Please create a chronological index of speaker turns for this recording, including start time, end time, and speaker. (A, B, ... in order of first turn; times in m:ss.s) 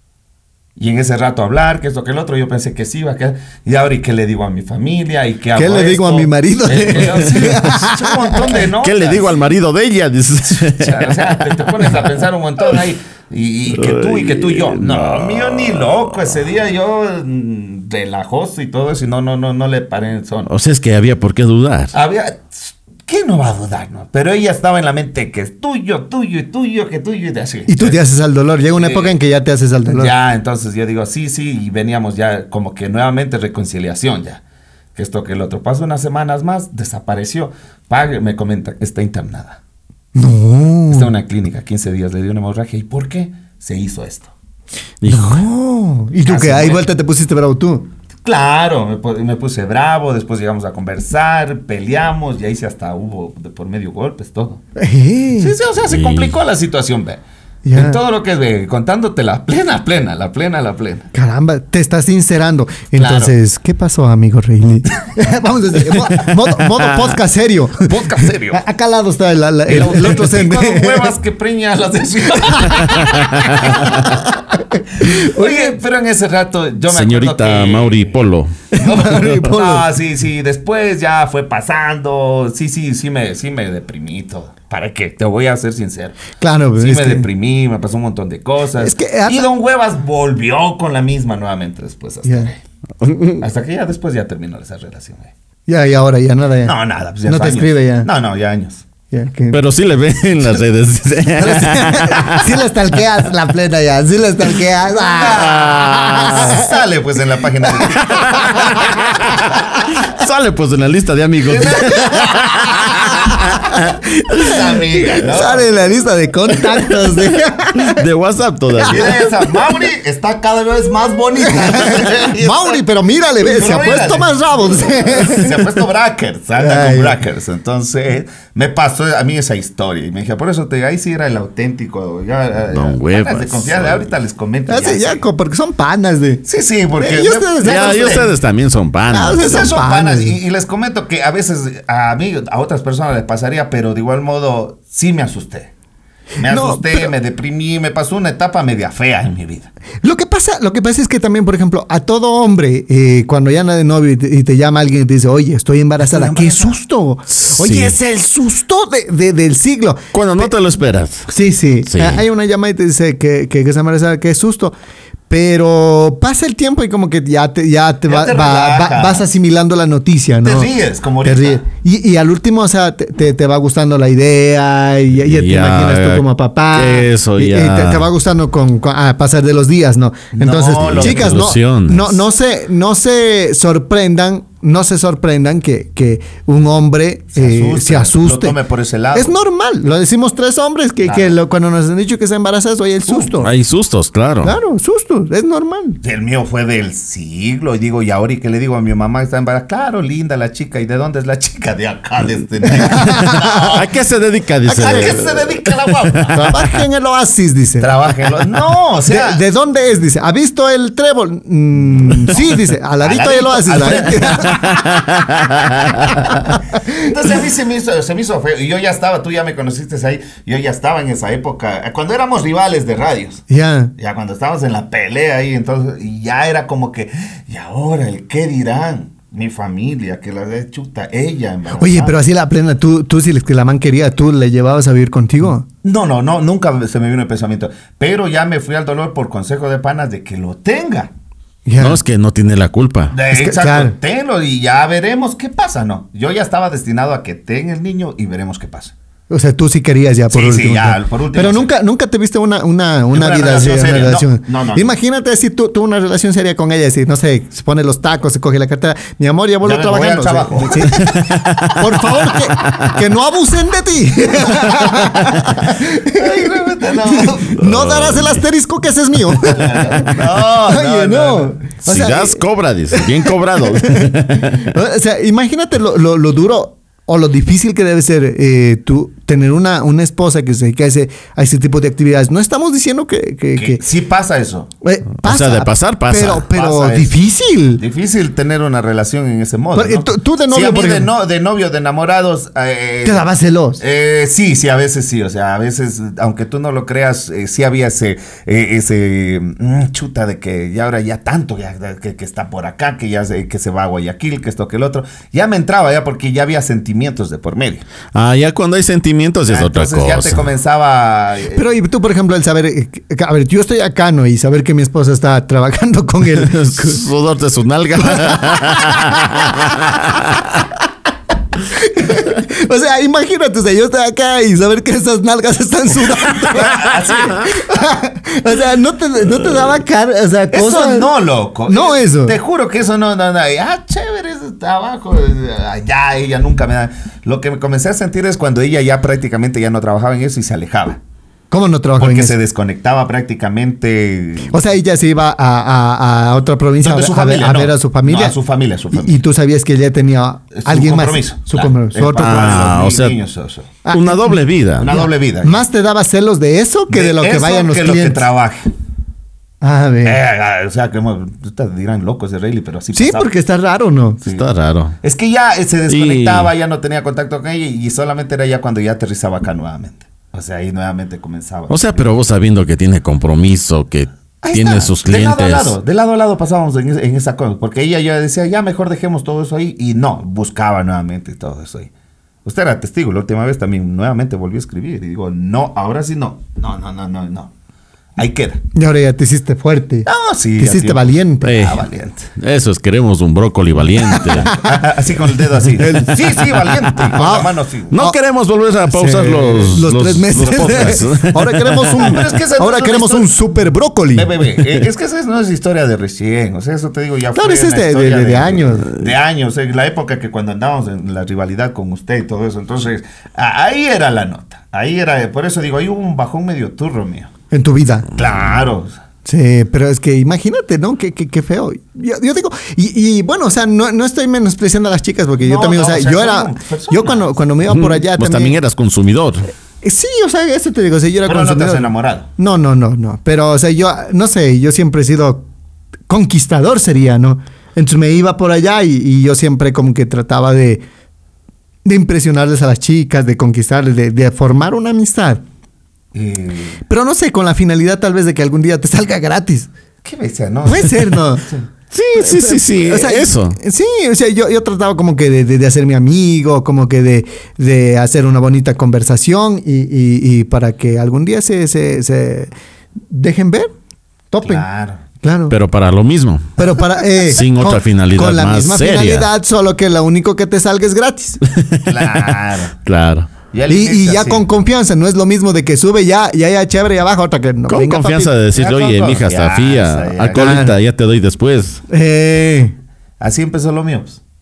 0:00.8-0:09.4 A
0:05.6-0:08.6 B
0:08.7-0:12.1 C
0:10.5-0:20.5 A
0:13.7-0:16.4 C
0:20.5-0:21.9 C
0:21.9-0:28.0 A
0:27.7-0:30.1 B
0:28.7-0:29.1 A
0:29.9-0:34.4 A
0:34.9-0:39.6 A
0:40.1-0:41.1 B
0:40.9-0:44.3 A
0:45.0-0:45.4 C
0:45.0-0:47.9 B
0:46.2-0:46.9 A
0:48.2-0:54.6 A
0:54.8-0:55.5 B
0:55.4-0:57.2 A
0:55.8-0:56.3 C
0:57.6-0:58.0 B
0:57.7-1:01.1 A
1:01.1-1:07.9 B
1:03.0-1:03.3 A
1:07.8-1:08.6 A
1:08.5-1:11.1 B
1:09.7-1:14.3 A
1:12.4-1:15.8 B
1:12.9-1:14.0 C
1:14.9-1:18.2 A
1:16.9-1:18.5 C
1:18.7-1:19.8 B
1:18.8-1:26.2 A
1:26.4-1:27.2 B
1:26.8-1:32.6 A
1:28.8-1:29.4 B
1:32.2-1:32.5 B
1:33.4-1:35.3 A
1:35.7-1:36.7 B
1:36.6-1:38.8 A
1:37.2-1:38.1 B
1:39.1-1:39.6 B
1:39.5-1:42.6 C
1:41.4-1:46.7 B
1:44.9-1:49.6 A
1:45.3-1:46.6 C
1:47.6-1:49.0 B
1:48.0-1:53.8 C
1:51.4-1:53.4 A
1:51.8-1:58.0 B
1:54.3-1:55.8 A
1:57.8-1:59.2 C
1:58.7-1:59.6 B
1:58.9-2:02.8 A
2:01.4-2:05.8 B
2:03.4-2:15.2 A
2:06.6-2:07.2 B
2:12.7-2:14.1 C
2:14.7-2:16.4 B
2:16.4-2:18.3 A
2:17.0-2:18.3 B
2:17.6-2:19.7 C
2:19.1-2:20.4 B
2:19.4-2:25.7 A
2:26.4-2:29.7 A
2:26.4-2:27.1 B
2:30.0-2:40.5 B
2:36.0-2:36.7 A
2:37.3-2:38.0 C
2:40.1-2:41.3 C
2:41.3-2:44.7 B
2:41.8-2:42.2 C
2:45.3-2:50.7 B
2:48.1-2:49.2 A
2:50.4-2:51.6 A
2:51.2-3:08.6 B
2:55.2-2:58.1 C
3:00.3-3:01.4 A
3:00.8-3:02.2 C
3:07.3-3:09.4 A
3:09.1-3:13.5 B
3:11.0-3:11.3 A
3:13.1-3:13.3 A
3:13.4-3:14.6 C
3:14.4-3:16.0 B
3:16.0-3:23.9 A
3:22.6-3:23.7 B
3:23.0-3:26.6 C
3:24.6-3:26.4 A
3:26.3-3:27.9 B
3:27.8-3:29.4 A
3:29.1-3:34.7 B
3:32.2-3:43.4 A
3:34.5-3:36.2 C
3:36.2-3:37.1 B
3:43.5-3:43.9 B
3:44.0-3:52.2 A
3:51.8-3:55.6 B
3:55.8-4:01.1 A
4:01.6-4:02.0 B
4:01.8-4:03.1 C
4:03.1-4:08.9 A
4:03.3-4:03.9 B
4:09.3-4:43.8 B
4:10.3-4:11.7 A
4:13.1-4:14.9 A
4:19.6-4:21.0 A
4:20.9-4:23.0 C
4:25.0-4:25.4 C
4:25.7-4:27.6 A
4:27.6-4:28.4 C
4:29.4-4:31.7 A
4:31.8-4:34.7 C
4:43.6-4:44.7 A
4:44.8-4:47.8 B
4:45.2-4:46.4 C
4:46.4-4:47.1 A
4:47.8-4:53.2 A
4:49.7-4:51.1 B
4:53.0-4:53.8 B
4:53.8-5:07.8 A
5:08.1-5:10.4 C
5:09.5-5:11.6 A
5:11.5-5:17.0 B
5:16.3-5:20.6 C
5:18.1-5:19.6 B
5:21.7-5:31.1 B
5:26.2-5:27.5 A
5:30.5-5:41.0 A
5:31.7-5:32.4 B
5:41.5-5:42.3 B
5:42.0-5:44.5 A
5:44.5-5:48.3 B
5:46.8-5:49.2 A
5:48.9-5:52.4 B
5:50.5-5:53.7 A
5:52.1-5:53.2 C
5:53.8-5:58.2 B
5:53.9-5:54.9 C
5:54.8-5:55.6 A
5:56.9-5:58.7 A
5:59.6-6:00.2 B
6:00.0-6:03.3 A
6:02.9-6:04.2 B
6:04.2-6:04.9 C
6:05.0-6:12.1 A
6:05.9-6:06.5 C
6:11.7-6:15.8 C
6:14.4-6:21.9 A
6:22.4-6:27.5 A
6:28.2-6:28.6 A
6:28.7-6:31.5 B
6:30.0-6:32.3 A
6:31.4-6:31.8 C
6:32.4-6:34.5 C
6:34.1-6:34.8 B
6:34.4-6:38.0 A
6:35.8-6:36.4 B
6:37.1-6:38.2 B
6:37.9-6:42.2 C
6:38.9-6:44.4 B
6:42.0-6:43.3 A
6:44.1-6:57.3 A
6:47.3-6:49.0 B
6:57.5-6:58.1 B
6:58.2-6:59.0 A
6:59.2-7:08.6 B
7:05.4-7:07.3 A
7:07.6-7:09.5 C
7:09.8-7:15.4 B
7:11.2-7:12.3 A
7:16.1-7:20.8 B
7:21.8-7:25.4 B
7:26.1-7:26.8 A
7:26.8-7:29.7 B
7:30.0-7:31.6 A
7:30.6-7:31.4 B
7:31.9-7:33.6 C
7:32.1-7:42.5 B
7:43.1-7:43.7 B
7:44.3-7:44.6 B
7:44.4-7:45.0 A
7:45.2-7:45.6 B
7:45.5-7:49.3 C
7:46.6-7:51.4 B
7:51.5-7:53.3 C
7:51.8-7:52.8 A
7:53.5-7:54.4 A
7:53.7-7:58.3 B
7:57.7-8:01.8 C
7:58.5-8:00.6 A
8:00.3-8:00.7 B
8:01.9-8:02.7 B
8:03.2-8:04.2 A